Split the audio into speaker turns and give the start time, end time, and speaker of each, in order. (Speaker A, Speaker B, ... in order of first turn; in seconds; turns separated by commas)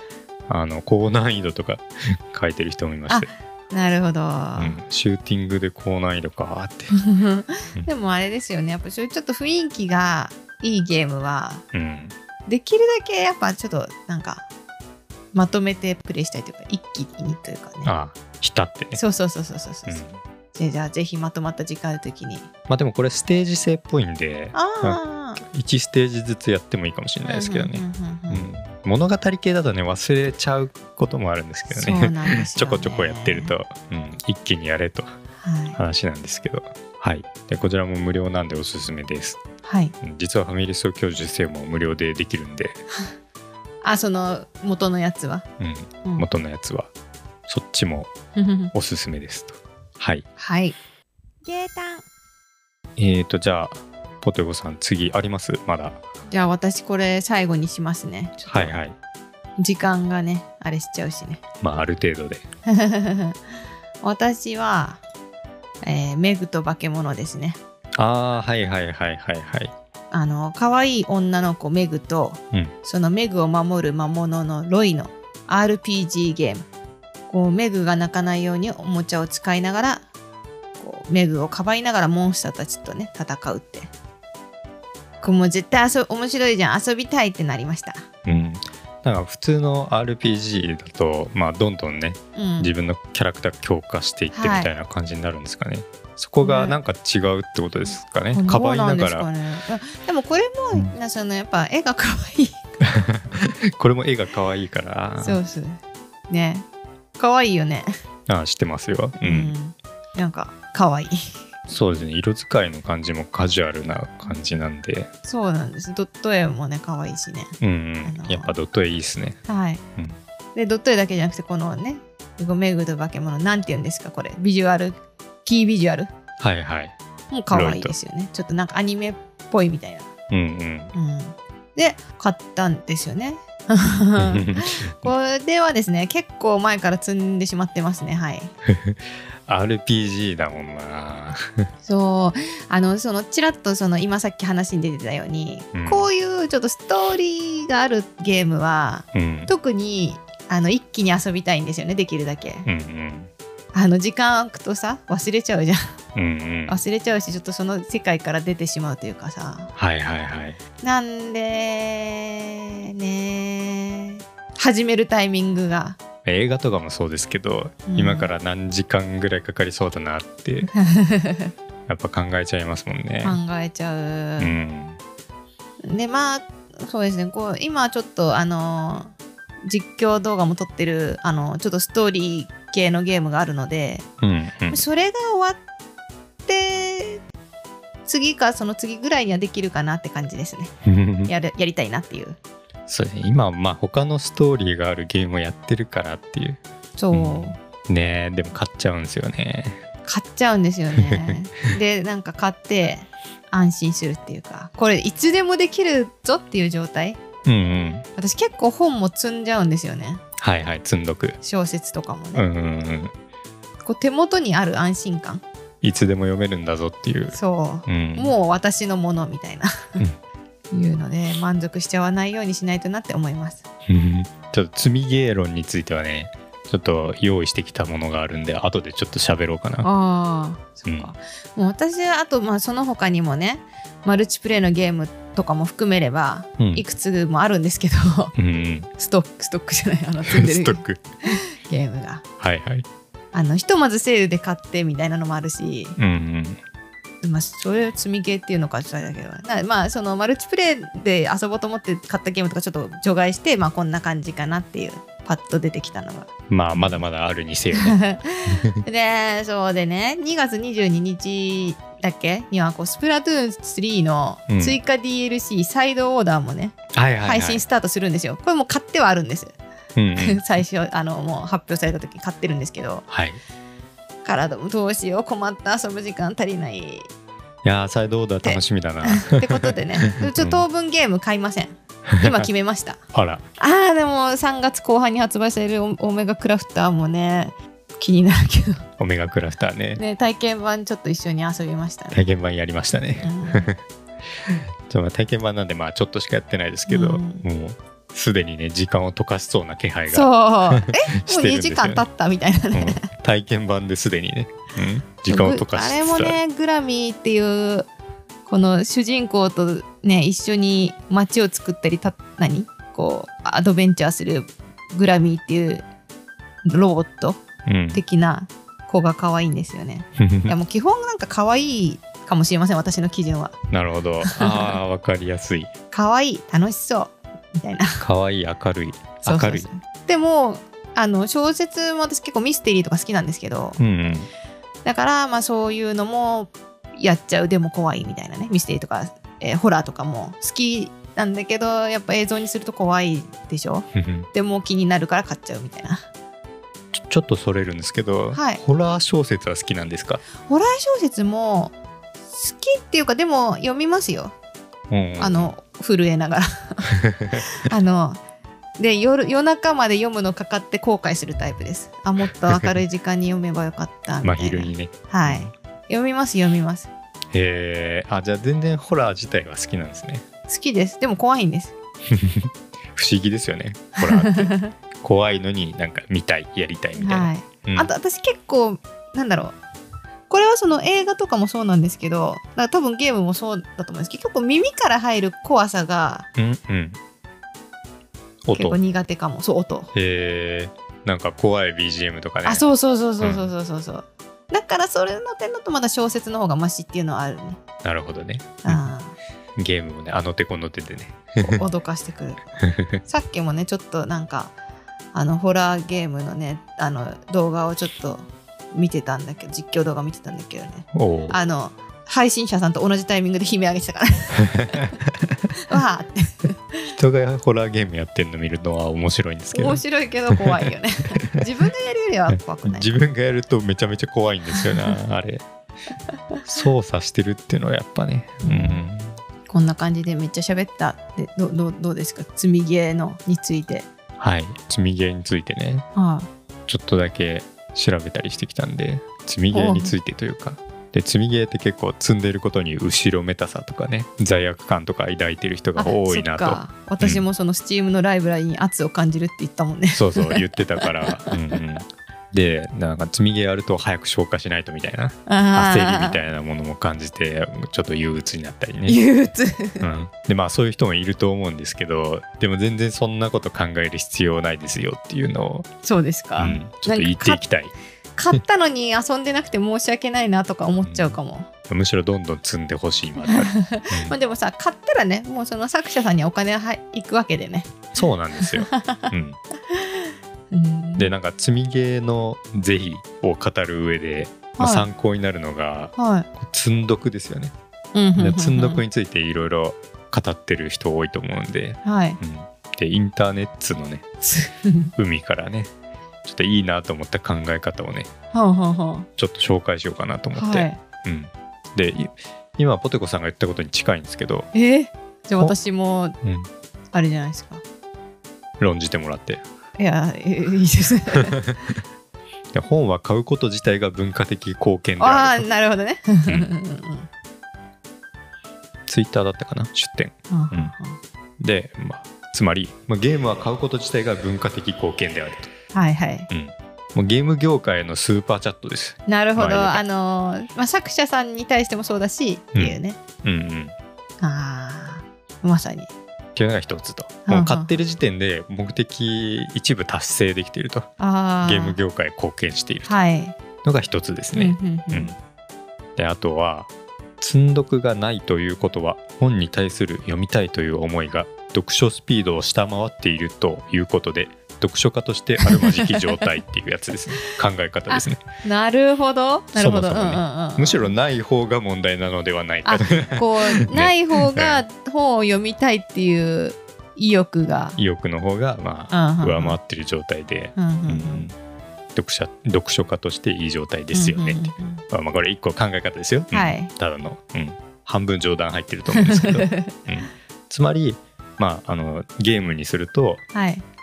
Speaker A: 0.5-3.3, Speaker B: 3.1-4.8, Speaker A: 4.6-7.0, Speaker B: 6.9-11.6, Speaker A: 11.7-12.1, Speaker B: 12.5-14.4, Speaker B: 15.3-17.9, Speaker A: 17.8-19.0, Speaker B: 18.9-22.5, Speaker A: 19.9-20.2, Speaker A: 22.7-35.1, Speaker B: 24.5-25.4, Speaker B: 27.2-28.5, Speaker B: 31.7-33.5, Speaker B: 35.4-35.8, Speaker A: 35.7-39.4, Speaker B: 39.6-39.9, Speaker A: 40.0-42.8, Speaker B: 43.8-45.4, Speaker A: 45.6-46.9, Speaker A: 47.5-48.1, Speaker B: 48.4-48.7, Speaker A: 48.7-50.2, Speaker B: 50.4-50.8, Speaker B: 51.4-52.0, Speaker A: 53.0-56.0, Speaker B: 56.3-58.8, Speaker A: 58.5-59.0, Speaker B: 59.6-61.4, Speaker A: 61.6-62.5, Speaker B: 62.7-63.4, Speaker B: 64.0-65.0, Speaker B: 65.8-67.6, Speaker A: 68.0-69.7, Speaker B: 70.1-76.7, Speaker B: 77.3-80.0, Speaker B: 80.8-83.9, Speaker B: 85.2-88.1, Speaker A: 88.2-99.3, Speaker B: 92.3-92.7, Speaker B: 94.3-94.7, Speaker B: 96.4-96.8, Speaker B: 98.3-102.8, Speaker A: 102.9-105.4, Speaker B: 105.2-106.6, Speaker B: 107.2-107.9, Speaker A: 108.3-109.5, Speaker B: 109.2-111.3, Speaker A: 111.7-115.1, Speaker B: 115.2-118.5, Speaker A: 117.6-119.4, Speaker B: 119.5-119.8, Speaker B: 120.5-126.1, Speaker A: 126.4-126.9, Speaker B: 127.3-130.1, Speaker A: 127.5-127.9, Speaker A: 130.3-130.9, Speaker B: 130.9-138.5, Speaker A: 134.2-135.1, Speaker A: 138.7-141.7, Speaker B: 141.8-152.7, Speaker A: 145.7-146.1, Speaker A: 149.1-149.5, Speaker A: 152.7-153.3, Speaker B: 153.7-155.9, Speaker A: 156.1-156.8, Speaker B: 156.7-159.7, Speaker A: 159.8-160.6, Speaker B: 160.8-166.0, Speaker A: 166.2-170.7, Speaker B: 167.9-168.3, Speaker B: 170.7-171.5, Speaker A: 171.9-173.4, Speaker B: 173.2-174.6, Speaker A: 174.4-175.0, Speaker B: 175.8-184.1, Speaker A: 184.2-184.8, Speaker B: 184.7-185.6, Speaker B: 186.4-187.2, Speaker B: 188.1-190.7, Speaker A: 190.8-191.3, Speaker B: 191.3-192.4, Speaker A: 192.9-196.6, Speaker B: 197.0-197.6, Speaker A: 197.1-199.8, Speaker B: 200.0-207.2, Speaker A: 201.0-201.3, Speaker A: 207.4-208.0, Speaker B: 208.2-210.2, Speaker A: 210.4-211.4, Speaker B: 211.4-212.4, Speaker A: 212.3-213.1, Speaker B: 213.8-215.4, Speaker A: 215.8-218.3, Speaker B: 217.3-220.0, Speaker B: 220.7-223.6, Speaker A: 223.9-229.9, Speaker B: 229.8-238.3, Speaker A: 236.6-236.8, Speaker A: 238.3-238.9, Speaker B: 239.0-242.2, Speaker A: 240.2-241.0, Speaker A: 242.4-242.8, Speaker B: 243.3-246.0, Speaker A: 246.0-246.6, Speaker B: 247.2-257.0, Speaker A: 256.5-258.0, Speaker B: 257.7-269.6, Speaker A: 258.5-258.8, Speaker A: 264.5-264.8, Speaker A: 266.9-267.6, Speaker A: 269.9-270.4, Speaker B: 270.2-273.1, Speaker A: 273.1-273.4, Speaker B: 274.2-277.1, Speaker A: 277.6-280.6, Speaker B: 278.4-283.0, Speaker A: 282.1-282.5, Speaker A: 283.1-283.4, Speaker B: 283.6-288.9, Speaker A: 289.0-290.0, Speaker B: 289.9-292.2, Speaker A: 292.1-293.8, Speaker B: 293.2-293.7, Speaker A: 294.8-302.0, Speaker B: 296.9-297.4, Speaker B: 300.1-303.1, Speaker A: 302.7-306.4, Speaker B: 305.2-307.9, Speaker B: 308.4-315.9, Speaker B: 316.6-317.4, Speaker A: 317.6-318.0, Speaker B: 317.9-323.6, Speaker A: 320.2-320.5, Speaker A: 323.7-325.7, Speaker B: 324.2-324.8, Speaker B: 325.9-328.0, Speaker A: 328.0-329.7, Speaker B: 329.2-333.8, Speaker A: 333.8-334.3, Speaker B: 334.8-346.1, Speaker A: 343.9-344.3, Speaker A: 346.9-350.2, Speaker B: 348.3-348.6, Speaker B: 350.4-351.7, Speaker B: 352.3-354.3, Speaker A: 354.9-355.5, Speaker B: 355.2-358.2, Speaker A: 356.9-357.4, Speaker B: 358.8-366.9, Speaker A: 364.2-365.5, Speaker A: 367.3-370.2, Speaker B: 370.5-371.7, Speaker A: 372.1-377.9, Speaker B: 374.0-374.7, Speaker B: 377.0-379.6, Speaker B: 380.3-386.3, Speaker A: 386.4-387.0, Speaker A: 388.4-388.8, Speaker B: 388.5-389.9, Speaker A: 389.9-392.6, Speaker B: 392.4-397.6, Speaker A: 393.2-393.5, Speaker A: 397.8-398.8, Speaker B: 398.6-399.2, Speaker A: 399.6-401.6, Speaker B: 401.4-402.5, Speaker A: 402.6-403.0, Speaker B: 403.0-404.5, Speaker B: 405.1-414.9, Speaker A: 410.9-411.4, Speaker A: 414.4-415.4, Speaker B: 415.6-416.9, Speaker A: 416.9-419.8, Speaker B: 419.5-422.9, Speaker A: 420.3-420.7, Speaker A: 421.2-421.4, Speaker A: 422.3-425.4, Speaker B: 424.6-424.9, Speaker A: 426.4-429.1, Speaker B: 428.4-428.8, Speaker B: 429.5-433.9, Speaker A: 434.2-435.9, Speaker B: 435.9-436.3, Speaker A: 436.7-447.2, Speaker B: 439.5-439.9, Speaker B: 445.8-451.3, Speaker A: 449.9-459.0, Speaker B: 455.3-456.2, Speaker B: 458.9-459.8, Speaker A: 459.8-465.7, Speaker B: 465.8-467.4, Speaker A: 466.4-467.7, Speaker B: 468.1-471.5, Speaker A: 470.8-471.2, Speaker A: 471.7-474.1, Speaker B: 473.2-479.1, Speaker A: 477.9-479.4, Speaker B: 479.7-481.1, Speaker A: 481.0-487.5, Speaker B: 484.6-484.9, Speaker B: 485.9-486.3, Speaker B: 487.9-488.8, Speaker A: 488.2-494.1, Speaker B: 491.8-492.2, Speaker B: 494.2-494.9, Speaker A: 494.9-495.7, Speaker A: 496.2-498.1, Speaker B: 498.3-499.1, Speaker A: 499.2-504.5, Speaker B: 500.3-500.8, Speaker B: 504.5-506.2, Speaker A: 506.2-506.5, Speaker B: 506.9-507.6, Speaker A: 508.6-509.4, Speaker B: 509.8-511.4, Speaker A: 511.1-511.6, Speaker A: 512.5-515.5, Speaker B: 515.0-517.1, Speaker A: 518.9-520.7, Speaker B: 520.3-521.0, Speaker A: 521.4-525.5, Speaker B: 525.7-526.3, Speaker A: 526.3-529.8, Speaker B: 529.1-533.0, Speaker A: 532.5-533.7, Speaker B: 534.2-535.9, Speaker A: 536.3-540.9, Speaker B: 537.2-537.8, Speaker B: 541.0-541.8, Speaker A: 541.4-542.9, Speaker B: 542.9-543.4, Speaker A: 543.6-545.2, Speaker B: 544.3-545.1, Speaker A: 546.0-558.2, Speaker B: 555.4-556.2, Speaker B: 557.9-560.9, Speaker A: 559.5-564.6, Speaker B: 562.6-567.8, Speaker A: 567.8-571.4, Speaker B: 568.9-569.6, Speaker B: 570.5-571.3, Speaker A: 571.9-583.2, Speaker B: 573.9-574.8, Speaker B: 576.3-576.7, Speaker B: 578.9-579.8, Speaker B: 583.3-583.6